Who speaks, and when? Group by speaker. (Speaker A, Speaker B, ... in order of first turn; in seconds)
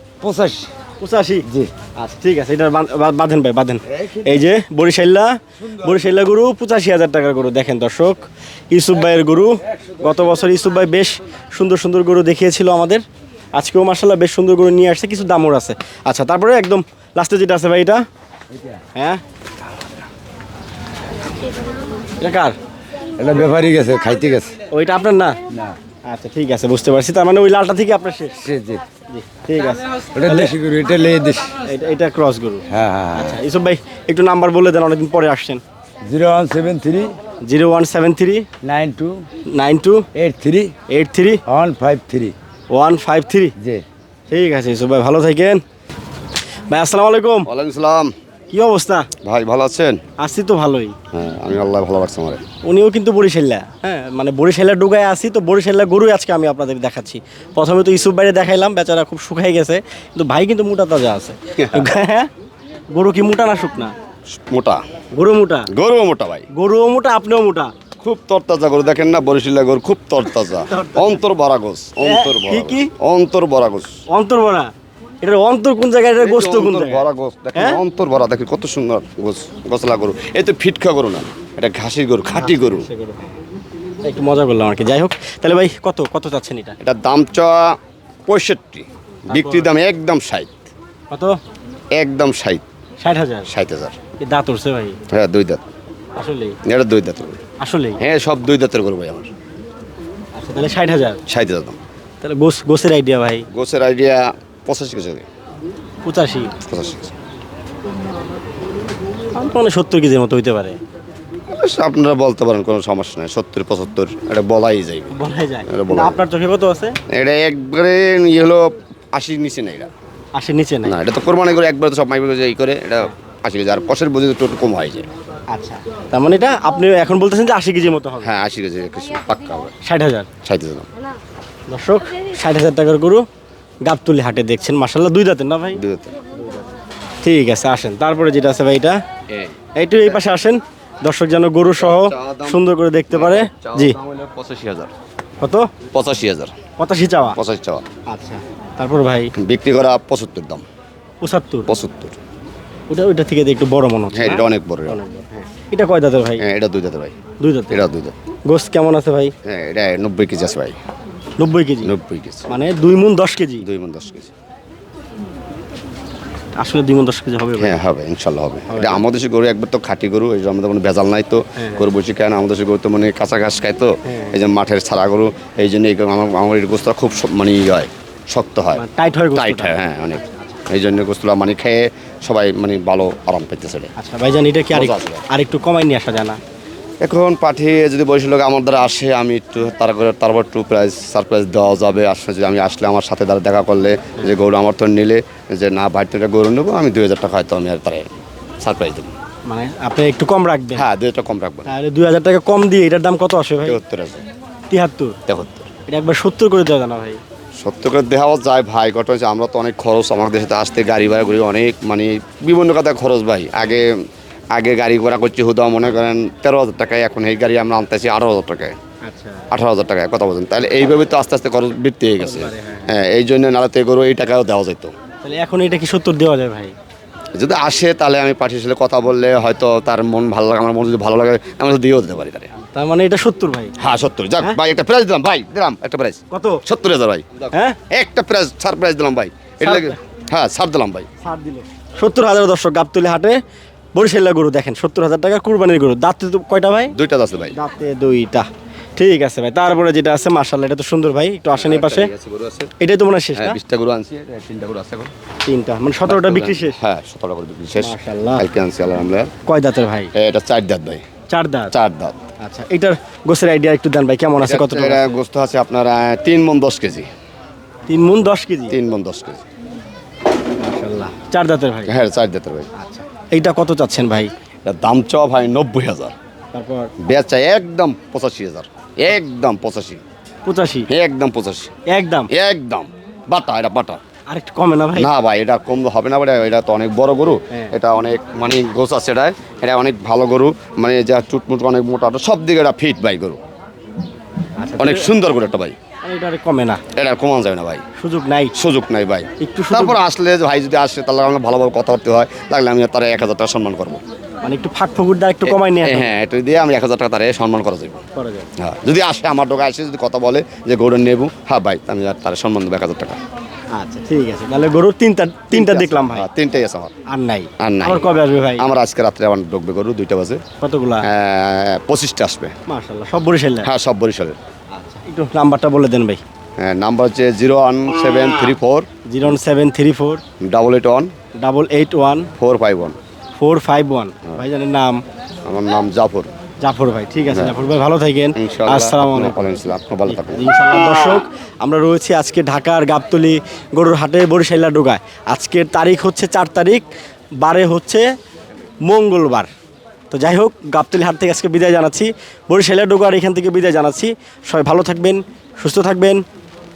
Speaker A: 0.2-0.7, 3.9-4.5, 5.5-6.2, 9.6-10.4, 18.5-18.8, 23.2-24.6, 25.5-25.8, 28.4-28.8, 30.1-31.6, 32.7-33.4, 36.0-37.1, 38.6-39.2, 40.1-40.7, 41.5-42.3, 43.6-43.8
Speaker B: 1.0-18.0, 18.9-19.2, 22.2-22.6, 24.7-25.4, 26.1-28.4, 29.1-30.5, 31.7-35.6, 37.4-38.5, 39.5-40.0, 40.9-41.4, 42.7-43.5, 44.3-45.6, 46.7-47.5, 48.5-49.1, 50.2-50.9, 52.6-62.3, 62.9-63.9, 65.1-65.7, 66.5-67.7, 70.5-71.2, 72.0-72.9, 74.1-74.7, 75.2-77.8, 82.3-83.3, 84.0-86.8, 89.3-89.7, 91.1-91.4, 93.0-93.5, 94.2-95.0, 96.2-96.6, 97.6-98.0, 100.3-101.2, 102.2-103.5, 106.0-106.5, 109.3-110.8, 115.1-117.0, 120.3-121.0, 125.5-128.3, 129.8-130.3, 131.7-133.2, 133.8-135.8, 137.2-139.0, 139.8-143.9, 145.4-145.7, 146.8-147.4, 148.1-149.3, 151.2-151.7, 152.9-156.4, 157.4-157.9, 158.5-159.3, 161.4-161.9, 162.5-163.6, 166.6-167.8, 168.7-169.0, 171.6-171.9, 174.0-174.4, 178.7-179.8, 184.0-186.4, 199.4-200.9, 201.7-203.8, 204.7-205.2, 205.9-207.2, 219.1-219.4, 222.2-222.9, 225.2-226.7, 232.7-233.8, 236.3-236.6, 237.5-237.8, 239.6-240.0, 241.2-243.4, 243.9-246.9, 247.5-252.1, 252.8-253.6, 255.4-256.8, 257.8-258.4, 259.4-260.1, 261.3-261.7, 262.4-265.2, 267.9-268.7, 270.6-271.9, 272.8-274.3, 276.5-276.9, 280.4-280.9, 281.9-282.3, 284.3-285.1, 294.6-295.1, 296.0-296.8, 298.0-298.5, 299.4-300.0, 304.4-306.2, 308.1-308.5, 313.7-316.3, 317.1-318.7, 320.6-321.0, 322.7-323.7, 324.7-326.2, 329.1-330.2, 331.4-332.3, 333.4-335.0, 336.6-339.4, 340.1-346.9, 347.4-348.1, 348.8-349.5, 350.1-356.2
Speaker C: 47.4-48.1, 49.2-50.0, 51.1-52.4, 61.6-61.9, 64.5-64.8, 65.7-66.5, 68.0-73.9, 76.2-82.8, 86.8-87.8, 88.3-90.5, 91.9-92.6, 93.5-94.0, 95.1-95.6, 96.7-97.4, 98.0-99.3, 101.3-101.8, 103.5-105.2, 106.7-107.1, 111.6-116.2, 117.1-119.9, 120.8-125.1, 128.2-129.7, 130.4-130.8, 135.8-136.2, 139.3-140.2, 141.7-142.6, 143.1-144.9, 145.9-146.5, 147.3-147.8, 149.4-150.6, 151.7-152.2, 154.1-155.0, 156.4-157.1, 157.7-158.1, 159.4-160.7, 161.8-162.5, 163.6-164.3, 167.6-178.8, 179.3-183.9, 184.7-185.2, 187.0-199.1, 200.7-201.7, 203.6-204.2, 205.3-205.7, 207.6-213.9, 214.5-218.7, 219.5-224.9, 227.3-232.5, 233.8-241.1, 246.9-247.6, 251.5-252.7, 253.3-255.1, 256.1-259.3, 260.1-261.0, 261.7-262.2, 264.4-267.1, 268.7-269.4, 271.9-272.7, 274.6-276.1, 277.0-280.0, 280.9-281.7, 282.3-284.0, 284.9-293.4, 294.8-295.8, 296.9-297.8, 298.5-304.0, 305.4-308.0, 308.6-313.2, 315.5-316.9, 317.6-320.4, 321.0-322.5, 323.6-324.4, 326.6-328.9, 330.4-331.1, 332.4-332.9, 335.4-336.3, 337.3-337.6, 338.3-340.5